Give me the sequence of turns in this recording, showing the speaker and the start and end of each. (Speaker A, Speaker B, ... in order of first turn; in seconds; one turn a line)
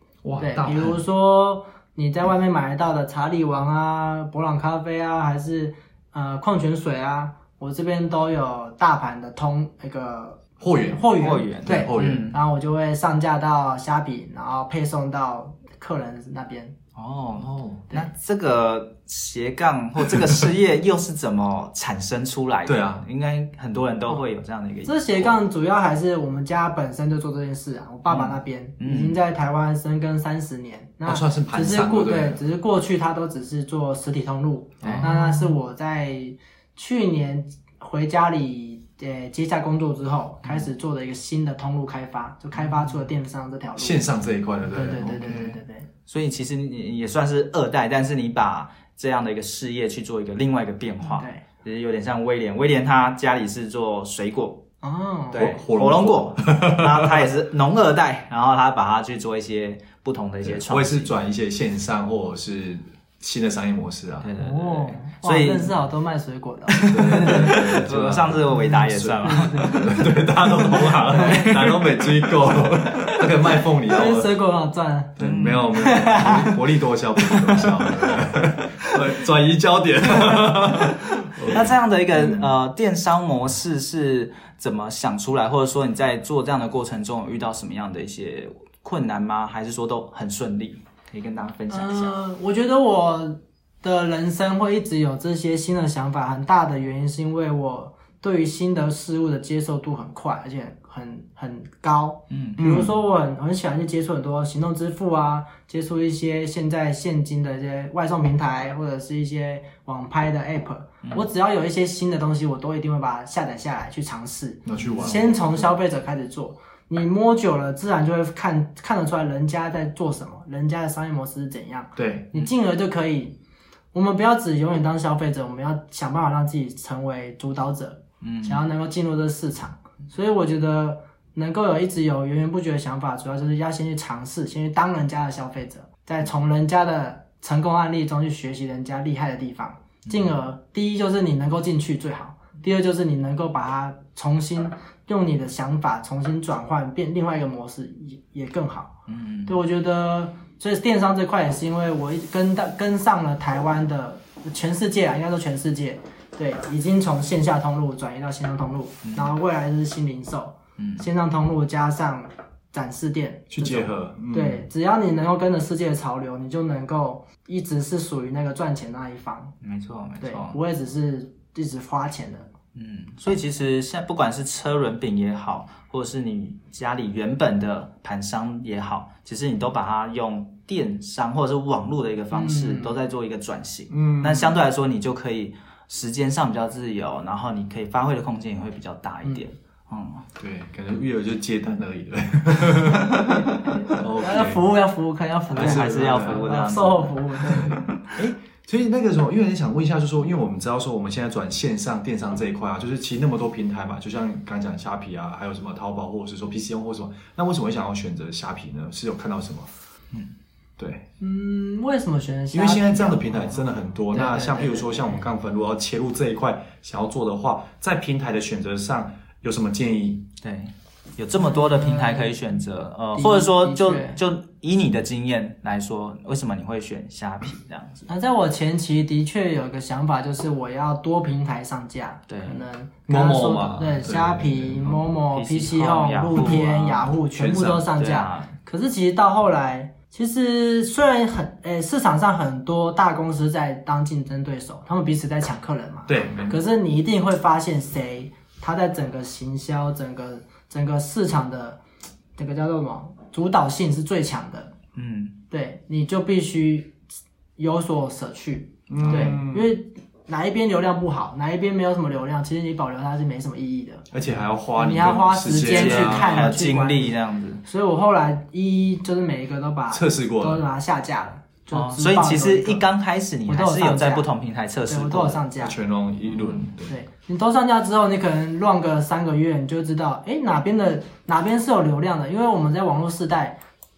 Speaker A: 0.2-1.0
Speaker B: 0.4-16.7
Speaker A: 10.6-11.1
Speaker C: 11.2-12.4
Speaker A: 11.6-12.3
Speaker C: 16.9-25.4
Speaker A: 17.4-17.8
Speaker A: 20.2-20.4
Speaker A: 22.6-23.1
Speaker B: 24.9-44.1
Speaker C: 28.1-29.2
Speaker A: 31.1-32.4
Speaker C: 34.8-35.5
Speaker A: 34.8-35.1
Speaker C: 42.6-42.9
Speaker A: 43.8-45.5
Speaker B: 44.7-45.9
Speaker C: 45.2-45.5
Speaker C: 46.1-54.6
Speaker B: 51.1-51.4
Speaker B: 54.8-55.5
Speaker C: 55.3-61.1
Speaker A: 55.3-57.2
Speaker A: 60.4-64.3
Speaker C: 64.2-65.7
Speaker B: 64.4-67.8
Speaker C: 66.7-70.0
Speaker A: 66.9-74.3
Speaker B: 69.2-71.8
Speaker C: 71.1-71.8
Speaker B: 73.9-75.2
Speaker A: 75.2-82.5
Speaker C: 75.2-76.0
Speaker B: 75.7-76.5
Speaker C: 80.3-92.1
Speaker B: 91.7-123.4
Speaker C: 102.3-102.6
Speaker A: 102.6-102.9
Speaker A: 114.7-115.7
Speaker C: 114.7-115.2
Speaker A: 122.0-122.3
Speaker B: 123.9-148.9
Speaker C: 128.2-128.6
Speaker C: 149.1-149.5
Speaker B: 149.5-169.5
Speaker C: 159.0-159.3
Speaker C: 160.8-161.0
Speaker A: 163.5-164.6
Speaker C: 169.6-170.6
Speaker B: 170.2-172.5
Speaker C: 172.7-190.2
Speaker B: 182.3-182.9
Speaker A: 183.9-184.6
Speaker A: 190.4-194.6
Speaker B: 193.6-197.8
Speaker A: 195.5-196.6
Speaker C: 195.5-198.1
Speaker A: 197.5-209.7
Speaker A: 210.8-211.0
Speaker B: 211.2-213.6
Speaker A: 212.5-220.3
Speaker B: 214.1-215.3
Speaker C: 220.4-228.1
Speaker B: 221.4-222.5
Speaker B: 223.1-224.2
Speaker B: 228.1-251.8
Speaker C: 232.3-232.6
Speaker A: 233.1-235.0
Speaker C: 235.3-237.1
Speaker A: 237.3-237.9
Speaker C: 237.9-238.5
Speaker A: 246.1-246.6
Speaker B: 252.4-254.7
Speaker C: 254.9-255.4
Speaker B: 255.5-256.9
Speaker B: 257.6-264.1
Speaker A: 258.9-259.7
Speaker C: 259.1-259.4
Speaker A: 264.1-266.5
Speaker B: 264.8-272.8
Speaker C: 265.6-267.6
Speaker A: 269.9-270.6
Speaker C: 271.7-275.4
Speaker B: 273.5-274.3
Speaker B: 274.9-275.8
Speaker A: 275.6-277.0
Speaker C: 276.3-276.7
Speaker B: 276.9-283.6